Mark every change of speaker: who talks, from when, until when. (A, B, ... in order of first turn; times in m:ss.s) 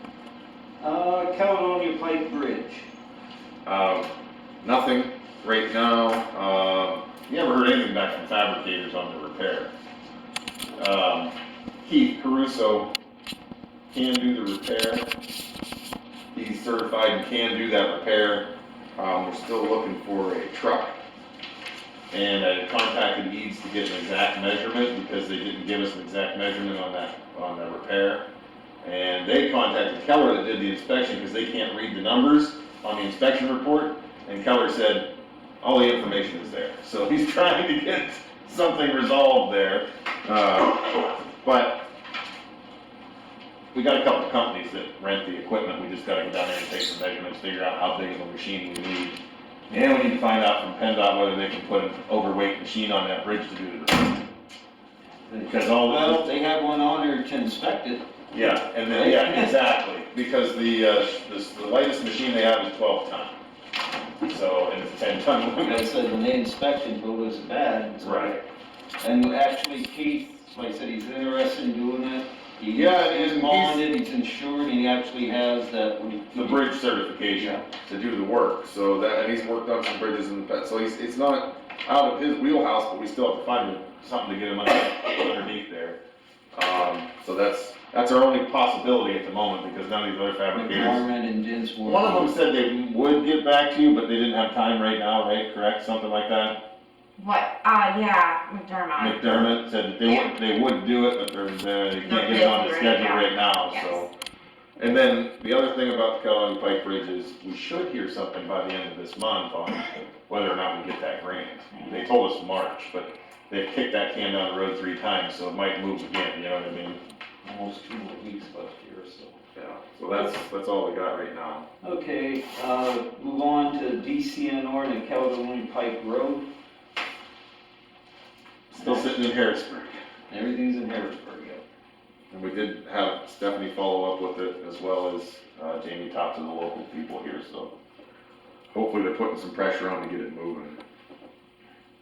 0:00.8-0:02.9 A
0:03.6-0:04.1 B
0:04.6-0:09.7 B
0:10.8-0:12.9 B
0:13.9-0:15.1 B
0:16.3-0:21.0 B
0:22.1-0:28.2 B
0:28.8-0:35.1 B
0:35.6-0:41.8 B
0:43.7-0:54.2 B
0:55.3-0:59.6 A
0:55.4-0:56.3 B
0:58.3-1:03.4 B
1:04.2-1:05.9 B
1:05.6-1:08.4 A
1:08.0-1:08.3 B
1:09.0-1:16.6 A
1:12.7-1:13.8 B
1:16.3-1:26.0 B
1:17.4-1:17.6 A
1:26.5-1:31.1 B
1:30.5-1:32.3 A
1:31.8-1:36.6 B
1:37.2-1:40.3 C
1:39.0-1:44.1 B
1:42.0-1:44.1 C
1:44.8-1:57.0 B
1:57.4-1:59.4 A
1:59.5-2:01.6 B
2:01.8-2:06.5 A
2:08.7-2:10.0 B
2:08.8-2:09.2 A
2:10.3-2:11.6 A
2:12.3-2:17.7 B
2:18.7-2:20.8 B